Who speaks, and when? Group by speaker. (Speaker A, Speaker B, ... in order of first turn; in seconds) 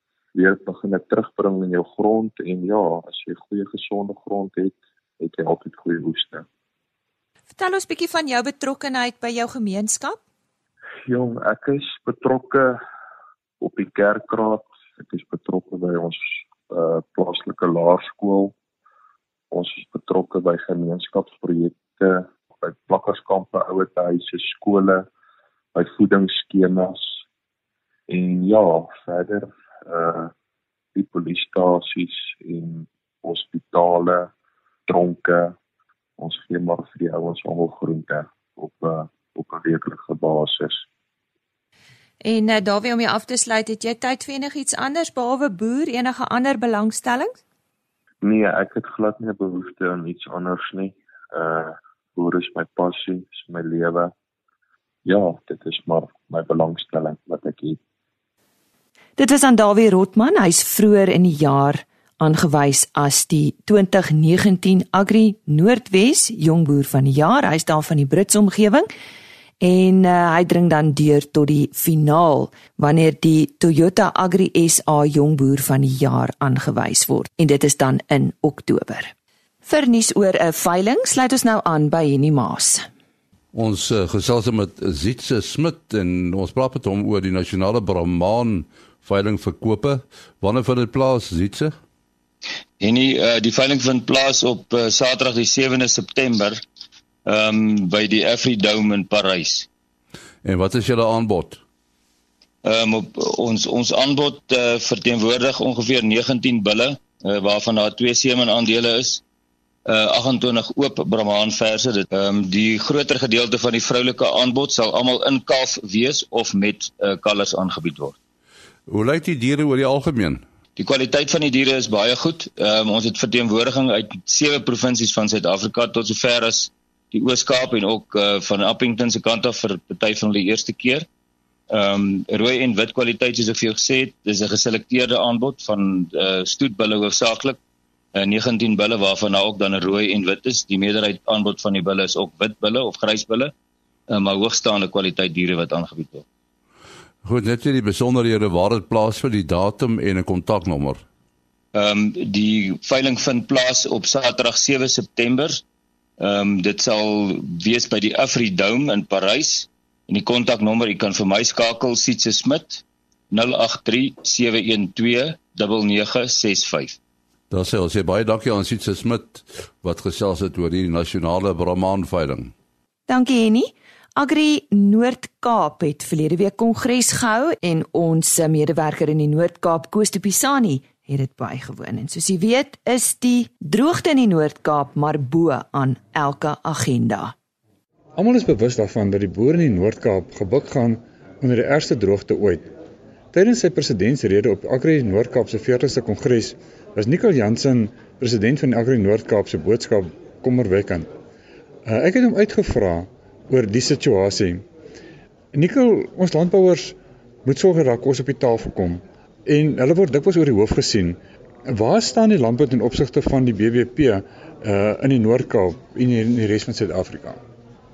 Speaker A: 0.3-6.5, 11.1-12.8, 13.6-18.5, 19.5-25.1, 25.7-27.2, 28.1-30.3, 30.9-34.3, 34.9-35.6, 36.2-40.9, 48.2-54.1, 55.0-57.8
Speaker B: 7.5-10.2, 42.2-47.4, 59.2-68.9, 69.6-79.1, 79.7-82.9, 173.1-187.3
Speaker C: 83.5-91.7, 100.4-101.6, 118.9-120.4, 147.2-151.0, 167.5-172.5
Speaker D: 92.8-96.6, 97.3-99.7, 102.6-109.2, 109.9-118.2, 120.8-131.1, 131.7-137.6, 138.2-143.5, 144.1-146.2, 151.7-155.6, 156.2-167.0
Speaker E: 188.2-192.7, 193.3-201.1, 201.8-204.7, 205.5-217.4